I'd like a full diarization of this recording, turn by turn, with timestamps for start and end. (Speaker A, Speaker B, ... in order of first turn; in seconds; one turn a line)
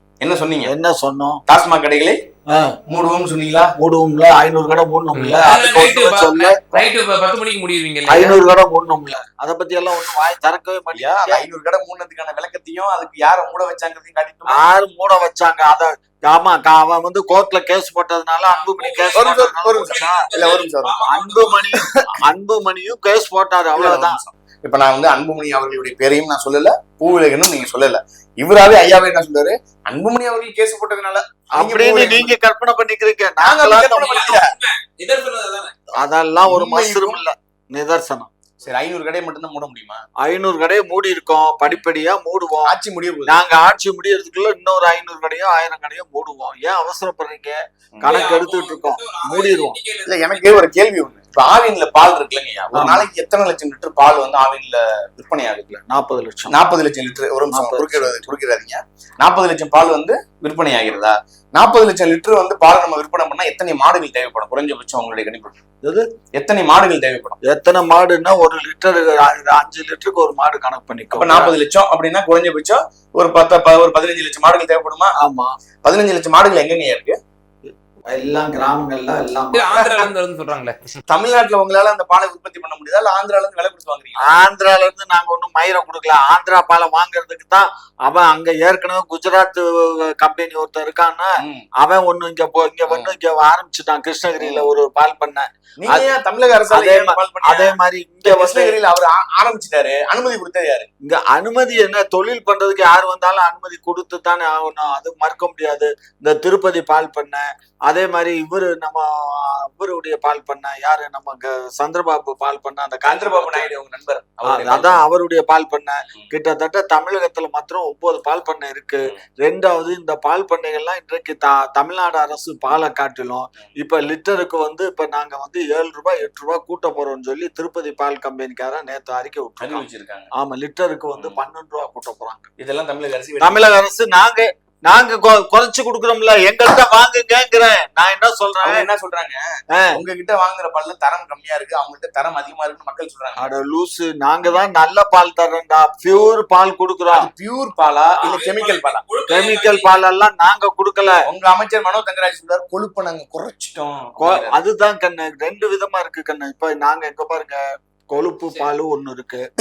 Speaker A: 0.2-0.7
Speaker B: 0.6-1.4
Speaker A: 1.5-2.2
Speaker B: 2.5-2.8
Speaker A: 2.9-3.7
Speaker B: 3.8-6.9
Speaker C: 5.1-8.4
Speaker B: 8.1-11.4
Speaker A: 11.0-14.6
Speaker B: 14.5-20.3
Speaker C: 18.5-21.7
Speaker A: 19.1-21.0
Speaker B: 21.0-24.2
Speaker A: 23.8-32.4
Speaker B: 31.6-34.3
Speaker A: 33.4-34.4
Speaker C: 34.0-35.7
Speaker B: 36.0-38.3
Speaker A: 36.4-37.2
Speaker A: 38.6-40.0
Speaker B: 40.2-42.8
Speaker A: 42.6-43.4
Speaker B: 43.3-49.8
Speaker C: 48.0-50.6
Speaker A: 50.1-55.8
Speaker B: 52.7-53.1
Speaker B: 55.7-56.5
Speaker A: 56.5-65.6
Speaker B: 57.5-58.2
Speaker A: 66.3-67.4
Speaker B: 67.4-71.5
Speaker A: 71.1-75.2
Speaker B: 75.2-75.5
Speaker A: 75.8-77.2
Speaker B: 78.1-80.1
Speaker C: 79.5-81.0
Speaker A: 81.1-84.4
Speaker B: 84.2-96.2
Speaker A: 92.9-93.1
Speaker A: 94.4-94.7
Speaker A: 95.8-97.8
Speaker B: 96.7-98.8
Speaker A: 98.3-100.9
Speaker B: 101.0-113.7
Speaker A: 113.0-115.0
Speaker B: 114.5-129.8
Speaker A: 129.6-130.3
Speaker B: 130.4-132.5
Speaker A: 132.6-133.7
Speaker B: 133.4-138.9
Speaker A: 138.6-143.5
Speaker B: 143.4-147.3
Speaker A: 147.1-149.0
Speaker C: 148.2-149.9
Speaker B: 149.3-151.2
Speaker A: 151.3-154.6
Speaker B: 154.2-159.5